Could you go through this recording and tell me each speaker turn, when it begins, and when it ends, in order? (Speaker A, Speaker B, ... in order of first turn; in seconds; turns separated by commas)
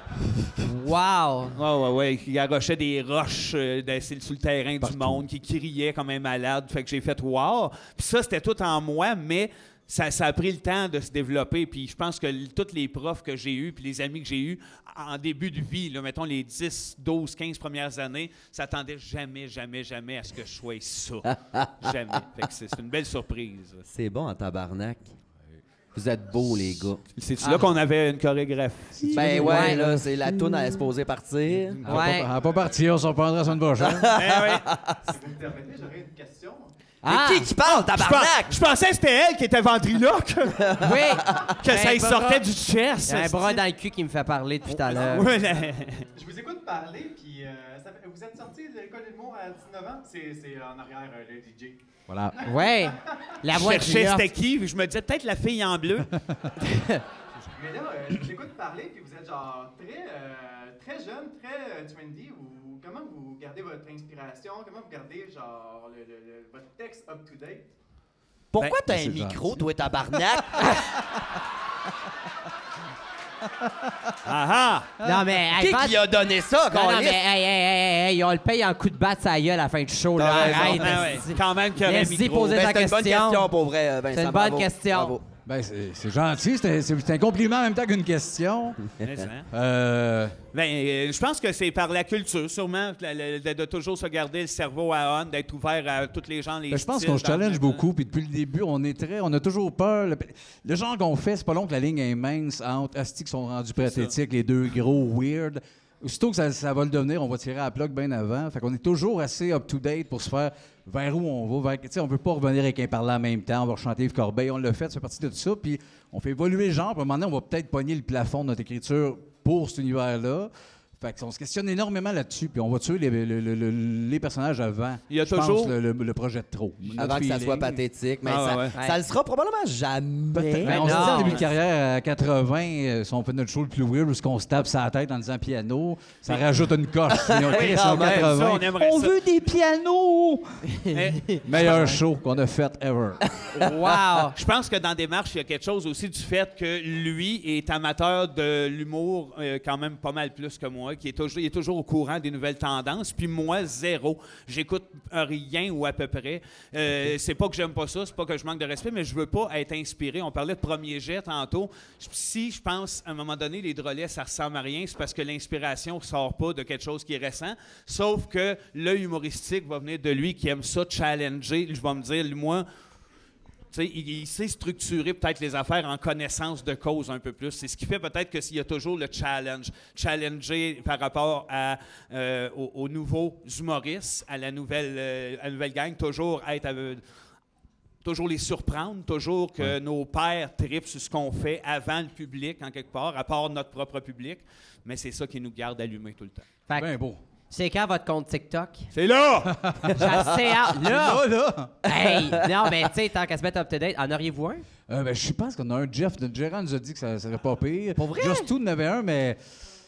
Speaker A: 0.6-1.6, Speaker B: 1.5-23.8, Speaker C: 4.8-5.2, Speaker D: 21.5-21.9, Speaker D: 23.9-25.0, Speaker D: 25.9-27.0, Speaker B: 27.1-29.2, Speaker C: 28.9-30.1, Speaker D: 29.1-32.0, Speaker A: 29.3-29.8, Speaker C: 31.8-34.1, Speaker A: 31.8-32.3, Speaker D: 33.8-35.0, Speaker B: 34.1-34.6, Speaker E: 35.1-36.7, Speaker A: 37.0-37.5, Speaker D: 37.0-38.6, Speaker B: 37.6-40.8, Speaker D: 40.6-41.5, Speaker A: 40.8-42.4, Speaker B: 41.6-43.6, Speaker A: 43.0-45.3, Speaker B: 44.7-46.1, Speaker E: 46.1-51.8, Speaker C: 52.1-52.4, Speaker E: 52.4-53.2, Speaker A: 52.4-54.2, Speaker B: 53.5-56.1, Speaker A: 56.6-57.0, Speaker E: 57.5-67.7, Speaker D: 68.5-70.8, Speaker C: 68.6-69.6, Speaker B: 74.2-74.9, Speaker A: 75.0-76.0, Speaker D: 75.6-77.2, Speaker A: 76.7-83.5, Speaker D: 80.2-81.0, Speaker B: 80.3-82.6, Speaker D: 82.5-85.2, Speaker A: 84.1-85.2, Speaker C: 85.5-88.8, Speaker D: 88.8-89.3, Speaker B: 89.0-89.5, Speaker C: 89.5-90.4, Speaker B: 90.5-97.8, Speaker C: 96.7-127.8, Speaker B: 103.8-104.1, Speaker B: 125.1-125.7, Speaker D: 127.0-131.5, Speaker B: 128.2-128.8, Speaker C: 130.3-140.7, Speaker A: 130.6-131.4, Speaker D: 137.1-138.6, Speaker B: 137.5-139.2, Speaker A: 140.9-141.3, Speaker B: 140.9-142.0, Speaker C: 141.4-143.2, Speaker D: 143.4-143.9, Speaker A: 143.5-144.3, Speaker B: 144.3-172.7, Speaker B: 173.7-187.0, Speaker B: 188.0-196.5, Speaker A: 196.7-196.9, Speaker C: 196.8-197.2, Speaker A: 197.5-198.9, Speaker B: 198.9-199.6, Speaker C: 199.5-200.0, Speaker A: 199.9-201.3, Speaker D: 200.0-200.3, Speaker C: 200.8-201.7, Speaker A: 201.8-204.6, Speaker D: 201.8-202.7, Speaker C: 204.9-209.4, Speaker A: 208.0-208.5